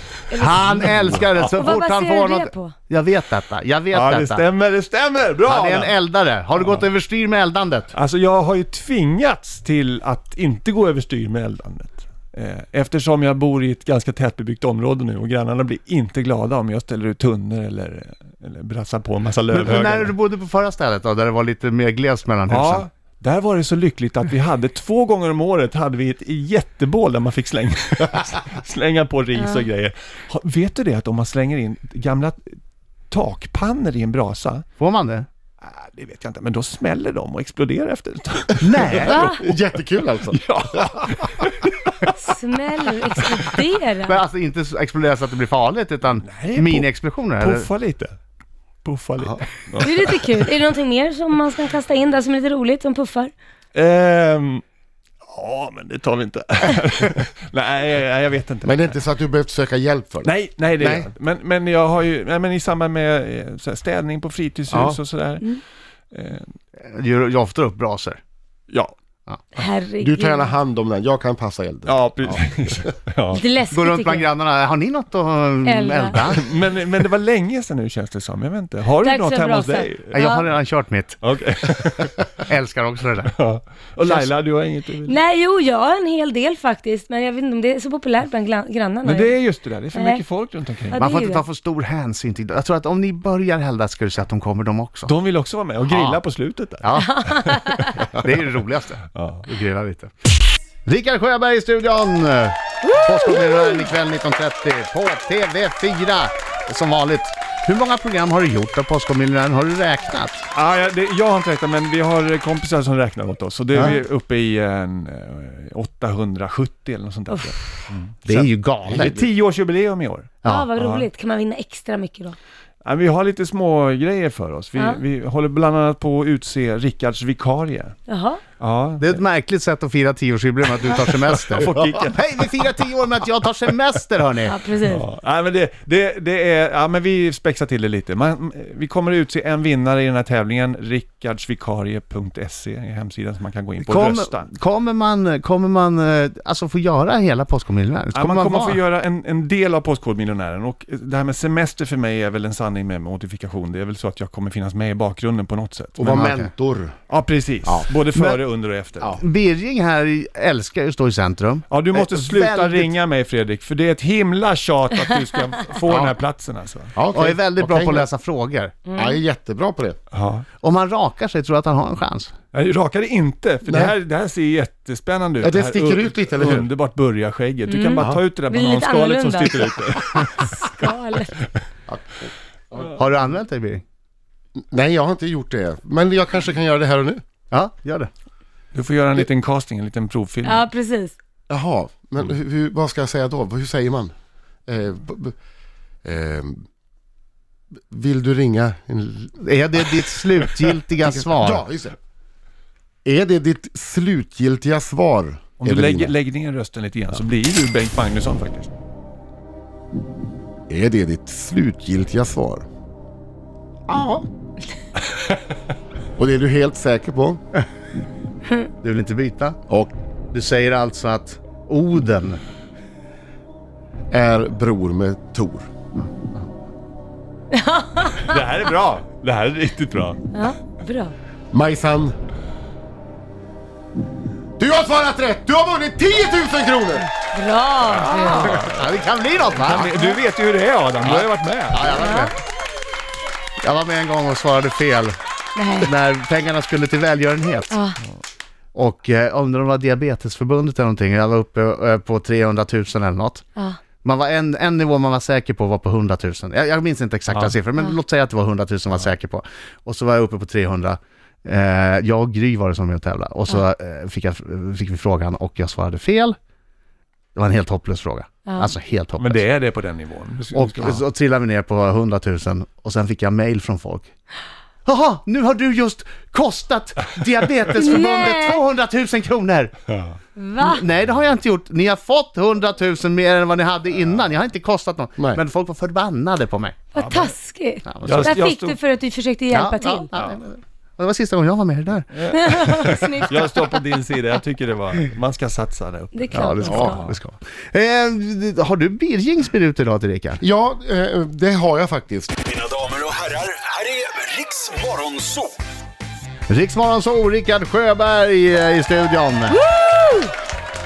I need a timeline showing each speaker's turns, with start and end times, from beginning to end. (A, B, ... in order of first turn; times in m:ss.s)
0:00.3-0:01.0 A
0:00.3-0:04.4 B
0:01.5-0:02.7 A
0:03.9-0:06.0 C
0:05.4-0:07.9 B
0:06.6-0:06.9 C
0:07.9-0:20.1 C
0:19.5-0:22.9 B
0:22.5-0:32.6 C
0:29.4-0:29.6 A
0:33.1-0:34.6 C
0:34.8-0:35.3 B
0:35.6-0:39.3 C
0:38.6-0:39.2 B
0:39.0-0:40.4 D
0:39.0-0:39.4 A
0:40.3-0:42.2 C
0:42.1-0:44.2 A
0:43.3-0:43.5 C
0:44.0-0:47.7 B
0:46.2-0:48.2 C
0:48.8-0:50.5 C
0:49.8-0:53.3 A
0:53.7-0:54.6 C
0:55.2-0:59.0 C
0:58.6-1:01.1 D
1:00.2-1:05.6 C
1:04.7-1:05.0 D
1:06.1-1:06.5 C
1:06.8-1:08.2 B
1:09.6-1:10.6 A
1:10.0-1:12.8 D
1:11.9-1:13.4 C
1:13.3-1:14.3 A
1:13.7-1:16.4 B
1:15.6-1:16.2 A
1:16.3-1:20.2 C
1:19.0-1:20.5 A
1:20.1-1:21.2 B
1:21.2-1:22.4 C
1:22.5-1:23.3 B
1:23.3-1:25.2 C
1:24.0-1:24.3 B
1:25.0-1:29.4 A
1:29.0-1:31.0 C
1:29.9-1:30.2 A
1:30.9-1:31.4 A
1:31.0-1:35.1 B
1:35.1-1:38.1 C
1:35.9-1:36.2 B
1:36.8-1:37.4 B
1:37.0-1:38.1 A
1:38.0-1:40.3 B
1:39.2-1:39.5 C
1:40.9-1:50.5 B
1:50.5-2:01.1 C
1:53.7-1:54.0 B
1:58.3-1:59.3 B
2:00.5-2:02.4 A
2:02.8-2:08.0 C
2:08.1-2:08.4 A
2:08.6-2:09.2 C
2:09.0-2:14.6 B
2:11.4-2:12.4 C
2:14.5-2:15.1 A
2:14.8-2:24.5 C
2:23.8-2:28.8 B
2:28.1-2:36.3 C
2:36.0-2:37.0 D
2:36.1-2:36.5 B
2:37.1-2:39.2 C
2:37.6-2:37.9 D
2:39.2-2:42.9 B
2:41.7-2:46.9 C
2:45.9-2:46.2 D
2:46.9-2:48.1 D
2:47.1-2:48.7 B
2:48.9-2:49.2 A
2:49.0-2:50.0 D
2:50.1-2:50.4 C
2:50.6-2:52.3 B
2:52.5-3:00.7 C
2:53.7-2:53.9 D
2:55.4-2:56.7 D
2:57.7-3:01.4 A
3:02.8-3:03.8 B
3:04.7-3:07.2 D
3:07.5-3:08.1 B
3:08.7-3:10.7 C
3:10.4-3:11.2 A
3:11.5-3:14.1 D
3:14.7-3:15.4 D
3:16.0-3:16.6 D
3:17.9-3:19.4 D
3:19.4-3:21.7 B
3:21.1-3:22.0 D
3:23.0-3:26.1 D
3:25.6-3:28.7 C
3:30.7-3:32.7 D
3:33.9-3:34.3 D
3:36.2-3:37.4 D
3:38.8-3:39.6 B
3:40.3-3:42.4 B
3:44.1-3:45.7 D
3:47.5-3:48.3 A
3:48.2-3:50.3 C
3:50.3-3:51.2 A
3:51.5-3:52.2 D
3:54.6-3:57.1 D
3:57.3-3:58.6 A
3:57.8-4:02.0 C
3:58.3-3:59.9 B
4:01.0-4:02.3 B
4:02.0-4:02.3 A
4:03.6-4:05.2 B
4:05.6-4:05.9 A
4:05.8-4:07.8 B
4:07.7-4:08.0 A
4:08.7-4:13.4 B
4:14.0-4:26.4 B
4:27.4-4:29.4 B
4:29.2-4:31.0 C
4:30.5-4:34.1 B
4:34.9-4:39.8 B
4:37.8-4:38.6 A
4:39.9-4:40.2 C
4:40.4-4:40.8 A
4:40.6-4:46.8 B
4:47.0-4:50.1 A
4:47.0-4:47.4 C
4:47.9-4:48.4 B
4:48.0-4:48.8 C
4:49.5-4:53.1 B
4:52.1-4:57.2 C
4:52.3-4:53.5 A
4:56.1-4:57.0 A
4:56.3-5:00.4 B
4:56.7-4:57.0 D
5:00.4-5:02.4 D
5:02.5-5:05.5 E
5:06.5-5:09.6 B